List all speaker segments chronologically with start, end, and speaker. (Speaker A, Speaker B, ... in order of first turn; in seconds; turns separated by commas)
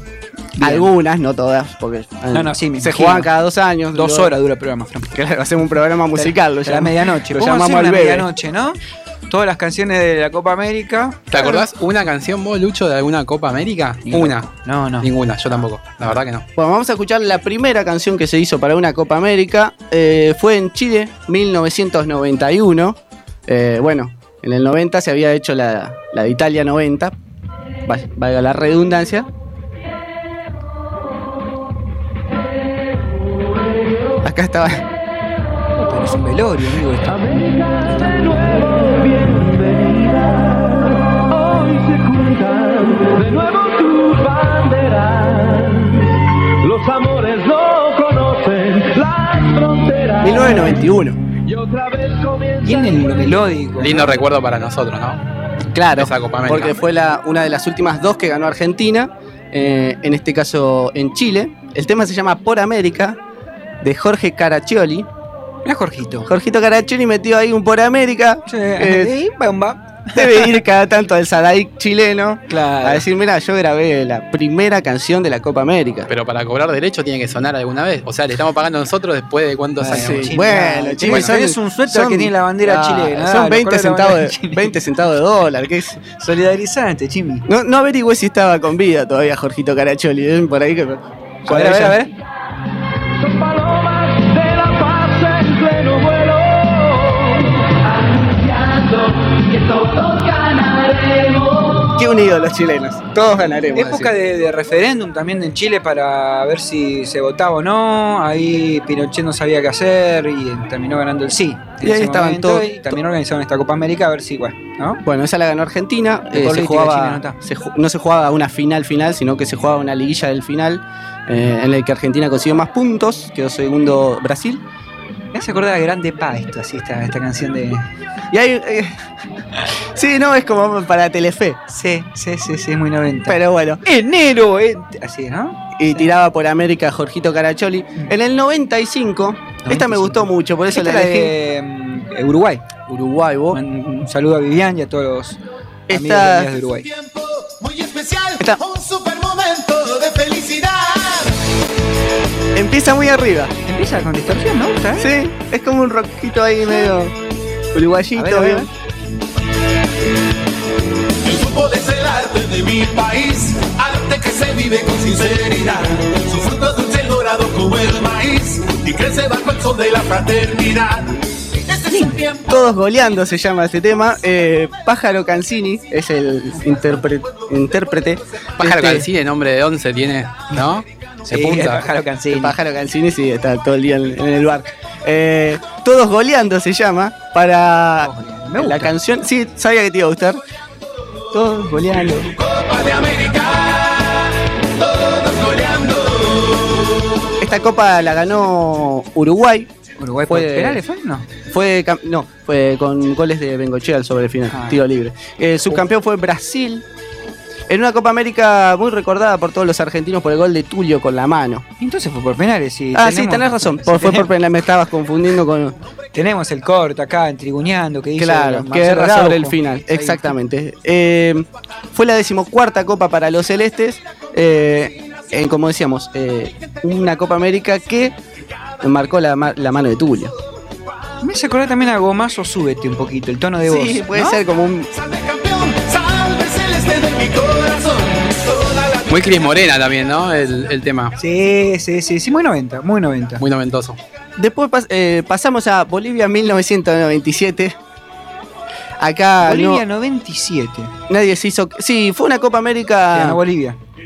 Speaker A: 0.6-0.9, Speaker B: 0.6-4.3, Speaker A: 2.3-3.3, Speaker A: 4.0-5.1, Speaker B: 5.1-8.3, Speaker A: 6.2-8.8, Speaker A: 9.3-11.4, Speaker C: 11.3-14.5, Speaker B: 11.3-11.6, Speaker A: 14.1-15.1, Speaker C: 15.0-16.4, Speaker B: 16.6-27.1, Speaker B: 27.9-29.3, Speaker B: 34.2-34.8, Speaker A: 35.8-37.4, Speaker A: 37.9-38.3, Speaker B: 50.2-51.2, Speaker A: 52.6-54.1, Speaker C: 53.8-55.2, Speaker B: 55.7-63.2, Speaker C: 56.0-56.8, Speaker B: 63.8-65.1, Speaker A: 65.7-66.3, Speaker B: 66.3-69.1, Speaker A: 68.5-70.6, Speaker B: 70.2-76.1, Speaker A: 72.5-73.0, Speaker C: 76.1-80.3, Speaker A: 79.8-84.7, Speaker B: 79.9-86.0, Speaker A: 86.2-87.5, Speaker B: 87.5-92.0, Speaker A: 91.5-92.1, Speaker D: 95.0-96.3, Speaker D: 97.9-101.9, Speaker B: 102.0-104.1, Speaker A: 103.8-115.0, Speaker B: 111.8-112.7, Speaker B: 115.0-124.6, Speaker A: 116.3-117.4, Speaker A: 125.3-127.9, Speaker B: 128.3-128.9, Speaker B: 129.9-131.6, Speaker A: 131.7-136.0, Speaker B: 133.3-133.8, Speaker B: 135.8-141.3, Speaker A: 139.7-142.7, Speaker B: 142.9-143.6, Speaker A: 143.5-145.4, Speaker B: 145.9-146.5, Speaker A: 145.9-146.9, Speaker E: 146.8-151.3, Speaker B: 152.6-153.5, Speaker A: 153.7-155.1, Speaker B: 155.0-157.1, Speaker B: 157.7-158.7, Speaker A: 158.2-158.7, Speaker E: 161.2-171.2, Speaker E: 171.7-172.5, Speaker B: 172.5-179.1, Speaker C: 178.6-181.9, Speaker A: 181.3-182.6, Speaker B: 182.3-190.4, Speaker A: 188.0-188.9, Speaker B: 191.3-192.3, Speaker E: 192.2-196.8, Speaker B: 197.4-199.7, Speaker A: 200.0-201.3, Speaker B: 200.3-200.8, Speaker B: 201.5-206.8, Speaker A: 204.5-204.8, Speaker B: 207.7-211.7, Speaker A: 211.8-214.3, Speaker B: 212.9-215.8, Speaker A: 216.1-220.3, Speaker B: 218.2-228.2, Speaker B: 228.8-230.3, Speaker A: 231.2-234.4, Speaker B: 233.7-234.9, Speaker E: 234.9-239.6, Speaker C: 239.1-241.2, Speaker A: 241.2-243.4, Speaker C: 243.4-244.0, Speaker B: 244.4-247.8, Speaker B: 249.0-249.8, Speaker A: 249.4-250.9, Speaker B: 251.1-253.4, Speaker A: 253.1-253.8